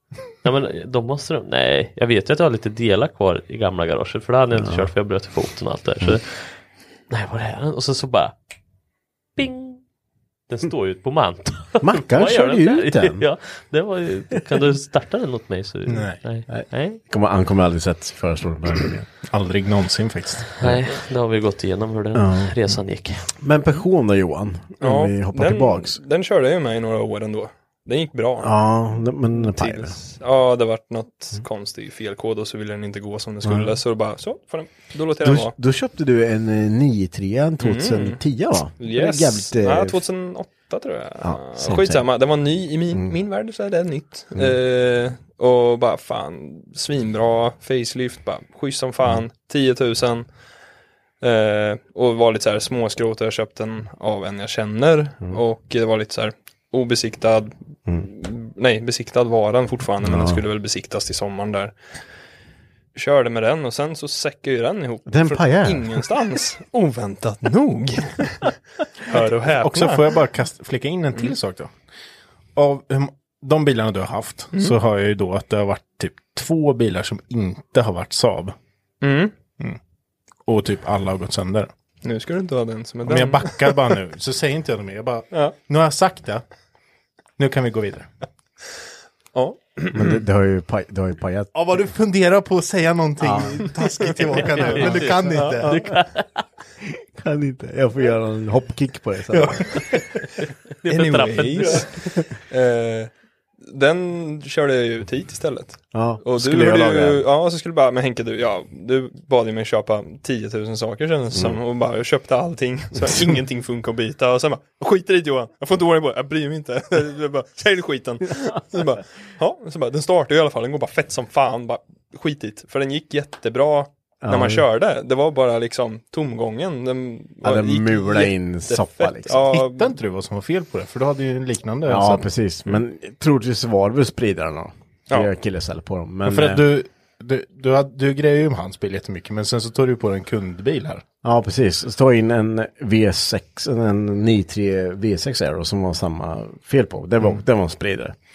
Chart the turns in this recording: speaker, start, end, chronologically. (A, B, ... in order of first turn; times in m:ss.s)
0:00.4-0:06.5 A
0:04.6-0:04.9 B
0:07.1-0:08.3 A
0:09.4-0:09.8 A
0:10.5-0:17.0 A
0:11.8-0:13.2 B
0:15.9-0:16.2 C
0:16.5-0:19.1 B
0:19.3-0:20.6 C
0:20.6-0:23.2 A
0:22.1-0:22.5 B
0:23.4-0:26.0 B
0:24.8-0:28.5 D
0:28.4-0:29.9 B
0:29.4-0:35.5 D
0:33.4-0:33.7 B
0:35.2-0:40.0 B
0:37.6-0:38.2 D
0:38.8-0:50.3 D
0:41.2-0:42.1 B
0:51.2-1:01.7 D
1:00.0-1:00.4 B
1:02.9-1:10.1 D
1:05.1-1:06.1 B
1:09.6-1:11.7 C
1:12.5-1:18.5 C
1:19.0-1:19.3 D
1:20.4-1:21.7 C
1:22.0-1:24.0 D
1:23.0-1:26.4 C
1:27.4-1:28.1 C
1:29.3-1:30.1 D
1:29.9-1:31.5 B
1:31.5-1:35.8 C
1:33.2-1:33.6 B
1:34.0-1:35.6 D
1:34.4-1:36.4 A
1:37.1-1:39.8 B
1:39.3-1:39.7 C
1:40.8-1:41.8 A
1:40.8-1:43.1 D
1:43.6-2:09.9 D
1:45.9-1:47.2 B
1:51.3-1:51.6 B
2:04.2-2:04.6 B
2:07.4-2:09.4 B
2:09.5-2:12.3 C
2:11.8-2:16.6 B
2:16.2-2:21.0 C
2:21.2-2:28.1 B